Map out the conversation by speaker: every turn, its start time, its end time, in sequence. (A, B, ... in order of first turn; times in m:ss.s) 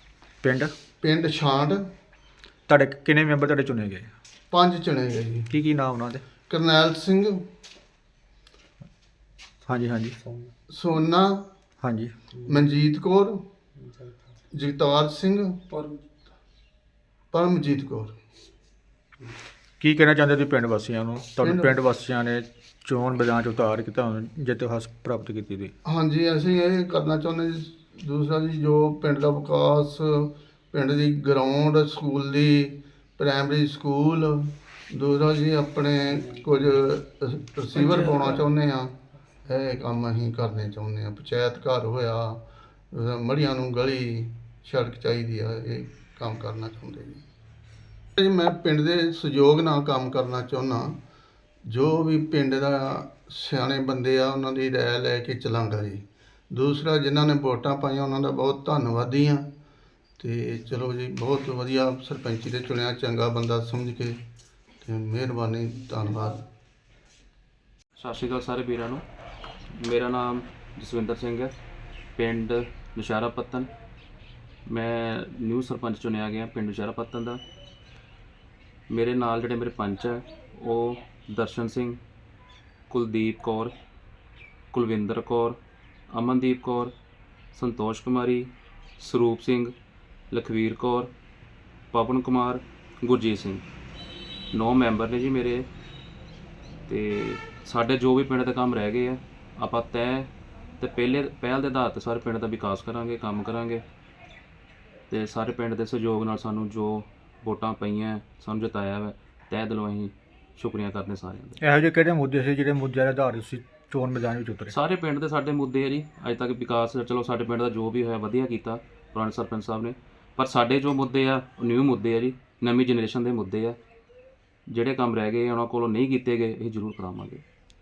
0:00.4-0:00.7 A
0:01.0-0:01.8 B
0:02.7-0:04.1 A
0:04.5-0:05.5 B
0:05.5-0:06.2 A
0:06.5-0:07.4 B
0:09.7-0:10.2 A
0:10.7-0:11.5 B
0:11.8-0:12.1 A
0:12.4-0:13.4 B
0:14.5-0:15.7 B
0:17.3-0:18.2 B
0:19.8-0:25.7 A
0:21.4-0:21.7 B
0:25.8-0:47.2 B
0:37.7-0:38.4 A
0:48.2-0:51.0 B
0:51.6-0:59.4 B
1:00.2-1:04.2 B
1:04.8-1:06.4 B
1:08.0-1:09.0 C
1:09.8-1:11.5 C
1:12.2-1:13.7 C
1:14.7-1:17.4 C
1:18.9-1:22.0 C
1:22.9-1:23.7 C
1:24.7-1:25.6 C
1:26.1-1:26.9 C
1:27.5-1:29.7 C
1:30.3-1:31.1 C
1:31.9-1:33.6 C
1:34.5-1:35.7 C
1:36.9-1:43.8 C
1:45.1-1:51.6 C
1:51.6-1:54.7 A
1:54.7-2:03.8 C
2:04.7-2:07.4 C